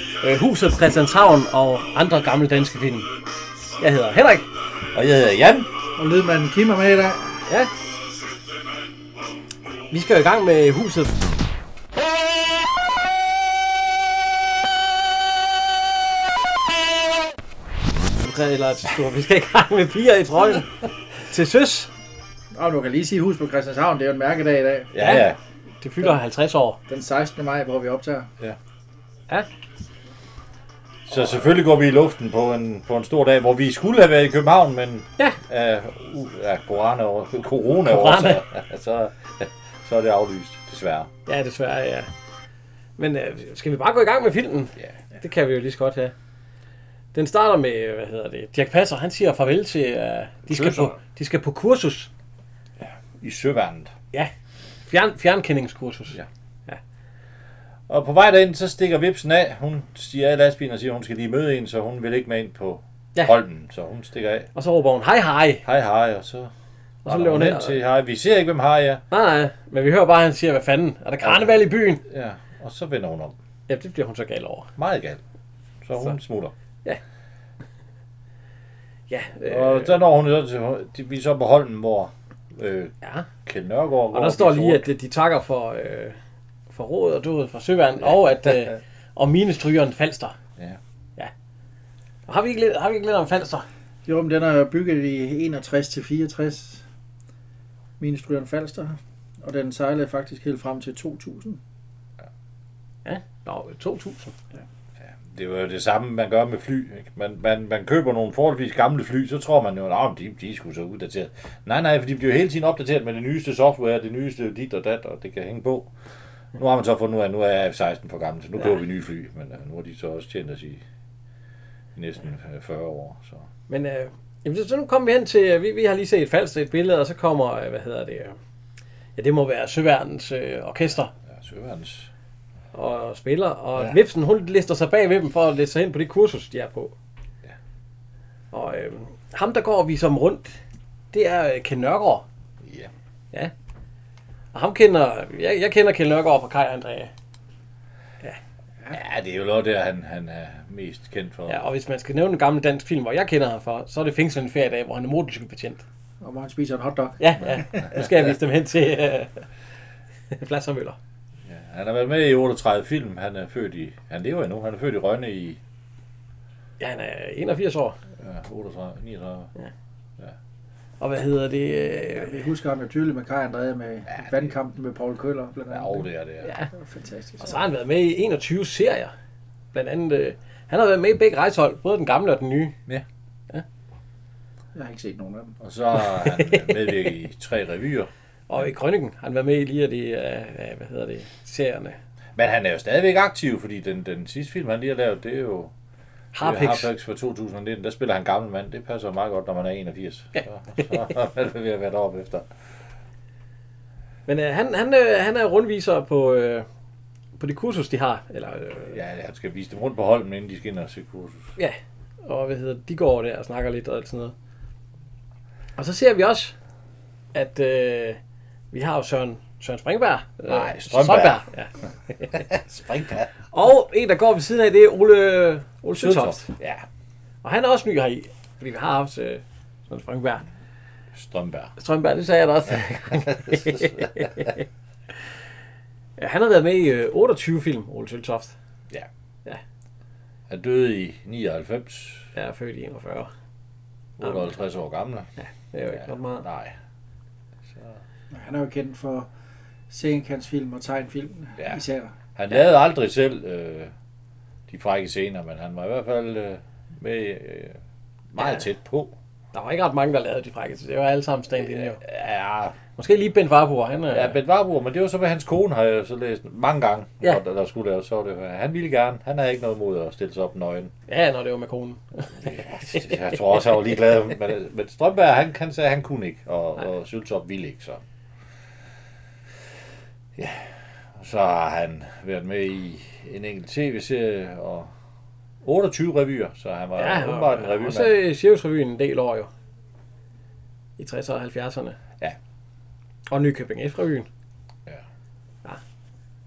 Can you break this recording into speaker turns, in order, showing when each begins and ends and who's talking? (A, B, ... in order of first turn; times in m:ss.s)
0:00.2-0:03.1 A
0:03.8-0:04.4 A
0:04.9-0:05.7 B
0:06.0-0:07.4 C
0:09.9-0:11.2 A
0:18.2-0:20.7 A
0:21.3-0:21.9 A
0:22.5-0:24.9 C
0:24.9-0:25.4 B
0:25.0-0:25.3 A
0:25.8-0:26.8 A
0:26.9-0:28.3 C
0:31.1-0:41.1 B
0:37.8-0:38.4 A
0:41.3-0:42.1 A
0:43.0-0:46.1 A
0:47.1-0:52.1 A
0:50.5-0:51.0 B
0:52.8-0:53.9 B
0:54.8-0:56.2 A
0:57.9-1:04.5 B
1:04.5-1:05.6 A
1:05.6-1:06.5 B
1:07.0-1:09.0 B
1:07.0-1:07.8 A
1:09.1-1:12.0 A
1:11.2-1:13.4 B
1:13.7-1:14.7 A
1:14.8-1:15.2 B
1:15.8-1:16.5 B
1:19.1-1:20.0 A
1:19.4-1:22.9 B
1:23.0-1:23.3 A
1:23.4-1:24.9 B
1:24.1-1:26.2 A
1:26.7-1:30.3 A
1:32.3-1:33.6 A
1:34.0-1:36.8 C
1:38.0-1:41.6 C
1:43.0-1:44.3 A
1:45.0-1:55.9 B
1:56.6-2:00.8 B
2:02.0-2:03.4 B
2:03.7-2:08.4 A
2:09.2-2:11.1 A
2:11.3-2:12.1 B
2:12.7-2:16.9 A
2:18.5-2:20.6 A
2:21.1-2:22.2 A
2:22.6-2:22.9 B
2:24.5-2:27.1 A
2:28.9-2:31.6 B
2:31.5-2:35.8 A
2:36.2-2:37.6 C
2:37.2-2:39.3 A
2:37.6-2:38.1 B
2:40.3-2:41.0 A
2:41.4-2:45.6 B
2:46.8-2:48.0 A
2:48.2-2:49.5 B
2:51.0-2:52.4 A
2:52.2-2:56.1 C
2:54.1-2:54.4 B
2:55.7-2:56.5 B
2:56.7-2:57.5 C
2:57.4-2:59.1 A
2:59.7-3:02.7 A
3:04.7-3:05.6 C
3:05.6-3:08.6 B
3:06.3-3:06.7 A
3:08.5-3:12.0 A
3:12.4-3:15.7 B
3:16.3-3:16.9 A
3:16.4-3:22.5 B
3:24.3-3:26.7 A
3:27.4-3:29.0 A
3:28.9-3:31.5 B
3:31.6-3:34.3 A
3:35.8-3:36.5 A
3:37.3-3:38.2 A
3:38.7-3:42.4 A
3:40.5-3:41.4 B
3:42.3-3:43.3 B
3:43.5-3:46.5 A
3:45.9-3:46.8 B
3:47.4-3:50.4 A
3:51.1-3:51.7 B
3:51.8-3:54.6 A
3:53.3-3:54.5 B
3:56.2-3:58.5 A
4:00.5-4:02.3 B
4:02.3-4:03.3 A
4:04.2-4:05.3 B
4:05.4-4:06.5 A
4:05.9-4:06.8 B
4:07.7-4:08.0 B
4:08.3-4:09.3 C
4:09.9-4:12.1 C
4:12.4-4:13.9 B
4:14.7-4:17.8 B
4:18.3-4:19.1 B
4:19.5-4:22.0 A
4:21.6-4:22.8 B
4:23.0-4:24.4 A
4:24.1-4:30.9 B
4:31.1-4:33.4 A
4:32.4-4:38.0 B
4:40.4-4:44.9 B
4:45.6-4:48.1 B
4:47.0-4:49.5 A
4:51.0-4:52.0 A
4:53.3-4:54.3 A